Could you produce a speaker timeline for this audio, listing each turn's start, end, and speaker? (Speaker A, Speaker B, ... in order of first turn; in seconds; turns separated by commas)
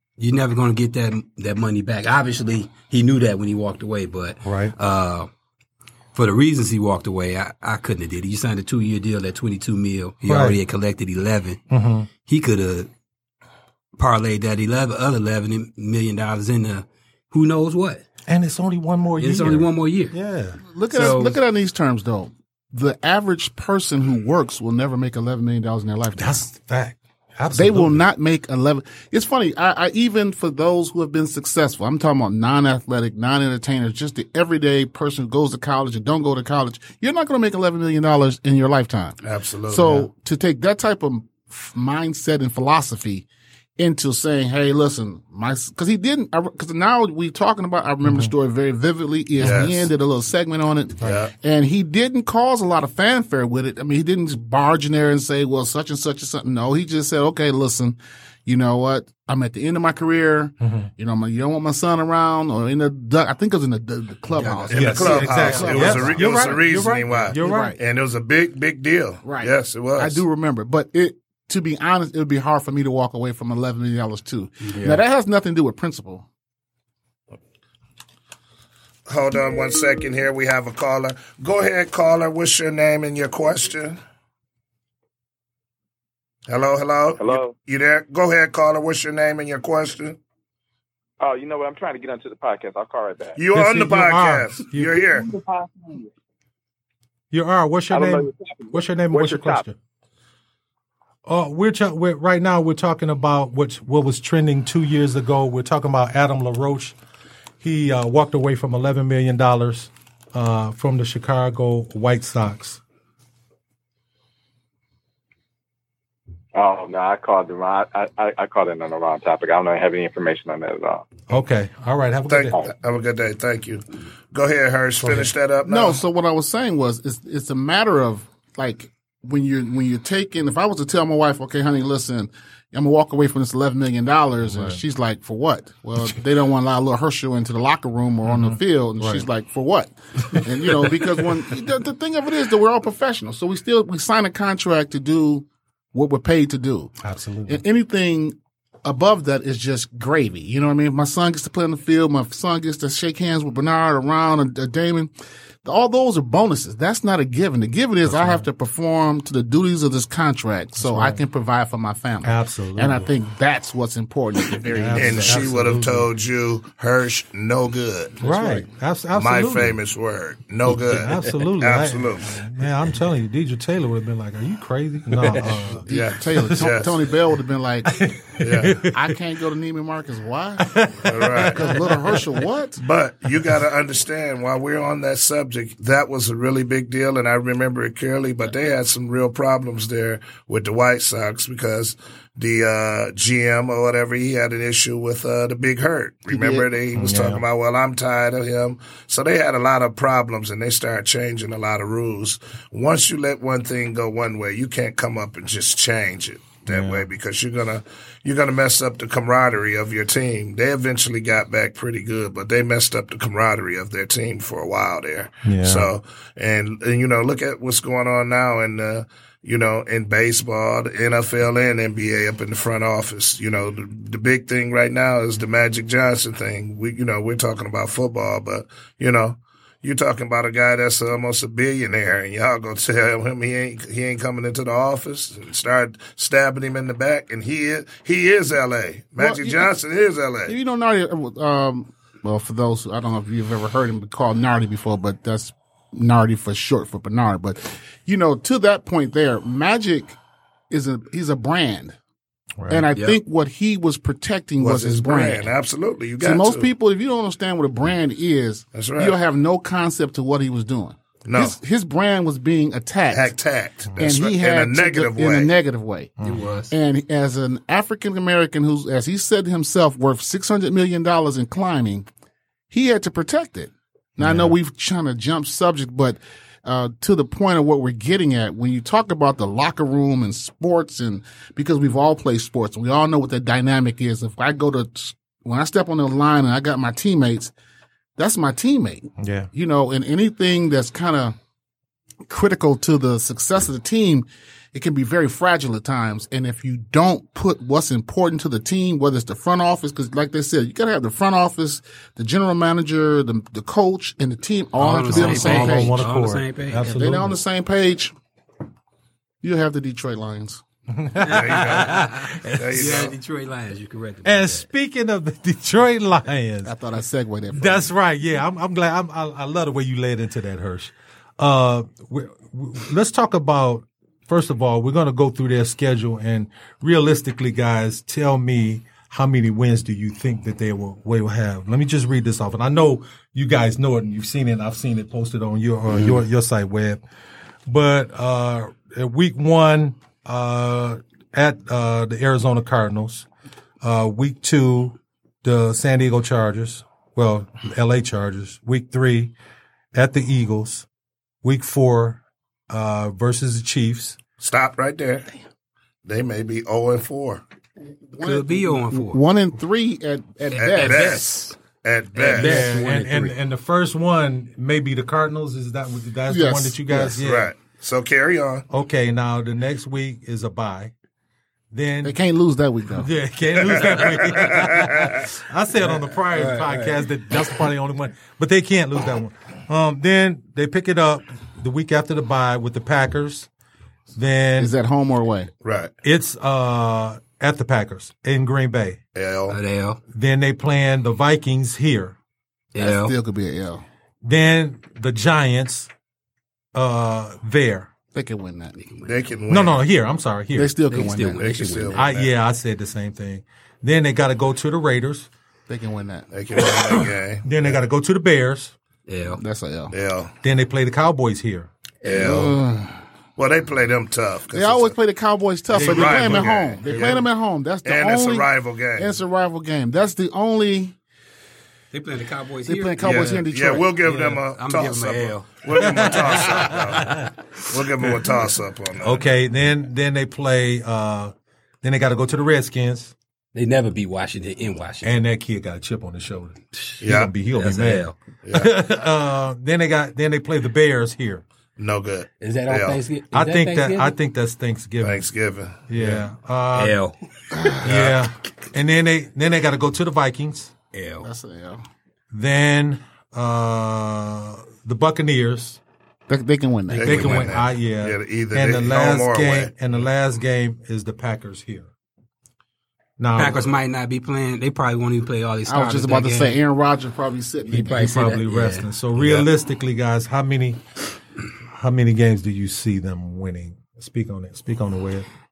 Speaker A: 0.2-5.3, Speaker B: 4.4-4.7, Speaker A: 6.1-11.6, Speaker B: 10.2-10.6, Speaker B: 11.7-12.1, Speaker A: 12.2-12.9, Speaker A: 14.0-18.0, Speaker B: 18.3-20.6, Speaker A: 19.2-20.1, Speaker C: 20.6-26.4, Speaker A: 20.9-21.4, Speaker B: 26.1-28.0, Speaker C: 27.5-39.2, Speaker D: 39.2-40.1, Speaker C: 39.7-43.3, Speaker C: 43.8-67.8, Speaker B: 48.0-48.3, Speaker D: 49.4-49.9, Speaker D: 51.0-51.3, Speaker B: 60.6-60.9, Speaker A: 64.3-66.1, Speaker D: 64.7-70.2, Speaker B: 64.7-67.8, Speaker C: 69.2-76.2, Speaker A: 74.6-75.0, Speaker D: 79.1-84.0, Speaker D: 86.5-90.2, Speaker E: 87.2-87.5, Speaker E: 91.2-93.4, Speaker D: 93.4-95.3, Speaker B: 93.5-95.0, Speaker E: 95.1-96.1, Speaker B: 97.3-99.8, Speaker E: 97.9-99.6, Speaker B: 101.2-107.0, Speaker B: 107.6-112.8, Speaker E: 116.5-121.0, Speaker B: 121.3-122.6, Speaker D: 122.3-126.0, Speaker B: 125.0-125.3, Speaker C: 125.6-146.9, Speaker B: 134.4-134.8, Speaker B: 138.2-139.2, Speaker B: 140.3-141.4, Speaker B: 147.0-147.6, Speaker C: 147.5-155.1, Speaker C: 155.6-165.5, Speaker B: 158.0-158.5, Speaker B: 160.8-161.2, Speaker B: 162.2-163.1, Speaker B: 164.6-166.1, Speaker D: 164.9-168.6, Speaker B: 168.2-169.8, Speaker D: 169.1-172.3, Speaker B: 170.7-176.8, Speaker A: 175.2-175.4, Speaker C: 175.8-178.1, Speaker D: 175.9-177.0, Speaker B: 177.8-179.2, Speaker D: 178.4-178.8, Speaker C: 178.8-180.8, Speaker B: 180.6-182.4, Speaker D: 181.0-181.7, Speaker C: 181.3-182.8, Speaker D: 182.8-240.6, Speaker C: 196.3-196.7, Speaker B: 196.9-197.4, Speaker B: 206.7-207.0, Speaker B: 215.4-215.9, Speaker C: 239.2-239.7, Speaker C: 240.5-250.2, Speaker C: 250.7-252.0, Speaker B: 252.6-252.9, Speaker C: 252.7-255.5, Speaker A: 252.9-253.2, Speaker D: 254.6-256.7, Speaker C: 256.2-263.3, Speaker D: 258.7-259.1, Speaker D: 261.2-261.6, Speaker D: 263.1-265.5, Speaker C: 264.0-266.1, Speaker B: 266.2-266.5, Speaker A: 266.2-266.7, Speaker C: 266.7-272.1, Speaker C: 272.7-287.5, Speaker B: 274.2-274.6, Speaker C: 288.2-291.4, Speaker B: 289.2-289.5, Speaker C: 292.2-306.0, Speaker A: 304.8-307.1, Speaker B: 305.1-307.4, Speaker C: 306.9-308.1, Speaker C: 309.4-310.6, Speaker B: 310.9-313.0, Speaker A: 311.2-314.7, Speaker D: 311.2-313.1, Speaker B: 314.2-316.7, Speaker C: 316.6-317.9, Speaker B: 317.5-337.0, Speaker B: 337.7-343.3, Speaker B: 343.8-349.3, Speaker B: 349.9-350.9, Speaker B: 351.4-354.2, Speaker D: 354.4-355.3, Speaker D: 356.0-357.4, Speaker C: 357.9-361.1, Speaker A: 358.2-359.2, Speaker A: 360.5-361.6, Speaker D: 360.6-362.6, Speaker A: 362.1-363.3, Speaker B: 362.4-367.5, Speaker C: 366.3-367.2, Speaker D: 367.2-368.6, Speaker B: 368.7-370.9, Speaker B: 371.7-372.2, Speaker C: 372.0-373.1, Speaker B: 372.9-383.5, Speaker D: 373.6-375.2, Speaker A: 375.8-377.1, Speaker B: 384.1-384.7, Speaker C: 384.6-385.5, Speaker D: 385.6-385.9, Speaker B: 386.0-389.0, Speaker D: 389.1-389.6, Speaker A: 389.5-390.0, Speaker B: 390.1-392.1, Speaker A: 392.7-393.1, Speaker C: 392.8-393.8, Speaker B: 394.2-395.9, Speaker B: 396.7-397.9, Speaker C: 398.1-398.8, Speaker A: 398.8-399.1, Speaker D: 399.0-399.8, Speaker B: 399.5-400.8, Speaker C: 400.6-401.4, Speaker A: 400.9-402.1, Speaker D: 401.3-402.3, Speaker B: 401.9-405.3, Speaker C: 405.7-406.3, Speaker D: 406.3-407.8, Speaker B: 406.6-408.7, Speaker A: 409.1-409.4, Speaker C: 409.4-409.9, Speaker D: 409.9-410.3, Speaker B: 410.4-411.7, Speaker A: 412.0-412.4, Speaker D: 412.0-412.5, Speaker C: 412.1-413.0, Speaker D: 413.4-414.9, Speaker C: 414.5-420.9, Speaker B: 415.7-417.2, Speaker D: 415.7-417.2, Speaker D: 417.8-419.2, Speaker A: 421.9-423.1, Speaker C: 422.6-423.9, Speaker D: 423.0-429.2, Speaker A: 424.0-427.2, Speaker B: 425.8-427.3, Speaker B: 429.0-433.1, Speaker A: 433.5-435.2, Speaker B: 435.0-441.4, Speaker D: 437.0-437.3, Speaker A: 437.5-438.1, Speaker D: 438.4-438.7, Speaker D: 441.8-443.0, Speaker A: 442.4-444.1, Speaker B: 443.3-445.2, Speaker D: 445.0-445.8, Speaker B: 445.9-447.0, Speaker A: 445.9-447.2, Speaker C: 447.5-447.8, Speaker A: 447.7-448.1, Speaker B: 447.8-450.7, Speaker D: 447.8-448.2, Speaker A: 450.9-451.3, Speaker C: 451.2-451.8, Speaker B: 452.3-455.8, Speaker C: 456.3-457.4, Speaker A: 456.9-457.6, Speaker D: 457.0-459.7, Speaker B: 457.0-461.9, Speaker B: 463.2-463.8, Speaker A: 463.4-466.6, Speaker C: 465.7-468.3, Speaker B: 467.7-470.8, Speaker A: 467.7-469.5, Speaker B: 471.7-475.3